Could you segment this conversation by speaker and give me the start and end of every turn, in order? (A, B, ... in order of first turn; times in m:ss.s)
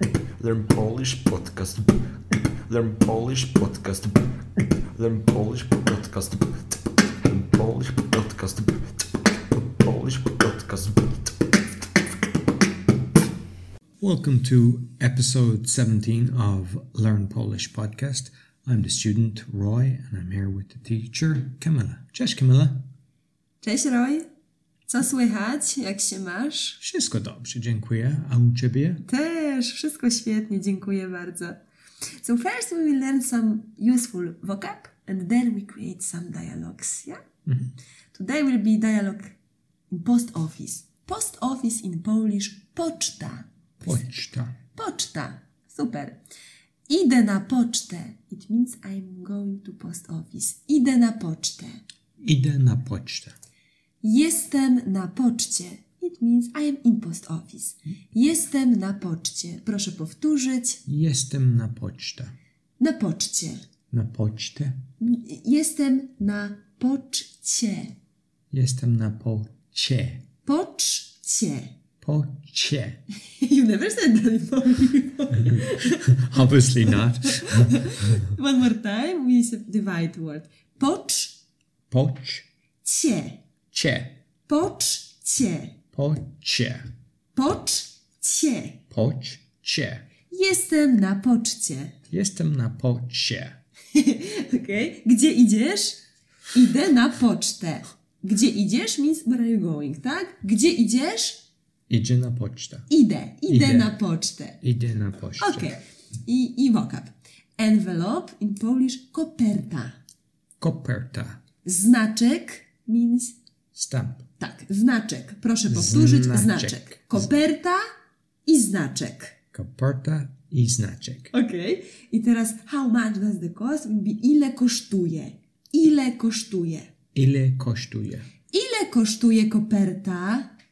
0:00.4-0:02.0 A
0:02.7-0:04.2 A
0:04.9-0:06.6 A
0:07.2-0:09.0 A
0:09.6-0:11.3 A
0:14.0-0:22.8 B
0:23.6-0:24.2 C
0:24.9-0:26.8 C
0:26.8-0:29.0 B
0:29.0-0:31.6 C
0:32.2-0:37.2 C
0:37.4-0:37.7 B
0:38.1-0:39.3 C
0:39.9-0:43.4 C
0:43.8-0:44.6 B
0:44.7-0:46.2 C
0:46.9-0:51.8 C
0:52.2-0:53.3 B
0:54.0-1:00.8 C
1:00.8-1:02.3 B
1:02.8-1:03.6 C
1:03.9-1:04.8 B
1:05.0-1:07.9 C
1:08.5-1:10.2 B
1:10.4-1:11.7 C
1:12.0-1:13.0 B
1:13.3-1:16.3 C
1:16.0-1:18.2 B
1:16.9-1:21.4 C
1:21.9-1:22.5 B
1:22.8-1:23.4 C
1:23.7-1:24.2 B
1:24.5-1:25.8 C
1:25.9-1:26.9 B
1:27.4-1:28.8 C
1:28.9-1:30.1 B
1:30.3-1:31.9 C
1:32.1-1:33.6 B
1:33.9-1:41.4 C
1:41.9-1:42.9 B
1:42.9-1:44.6 C
1:43.5-1:43.9 B
1:44.6-1:45.7 B
1:45.4-1:49.9 C
1:50.6-1:51.4 B
1:51.6-1:53.4 C
1:53.7-1:54.2 B
1:54.4-1:57.8 C
1:55.7-1:57.2 B
1:58.4-1:59.3 C
1:59.5-2:01.3 B
2:01.3-2:06.9 C
2:07.1-2:08.3 B
2:08.5-2:10.5 C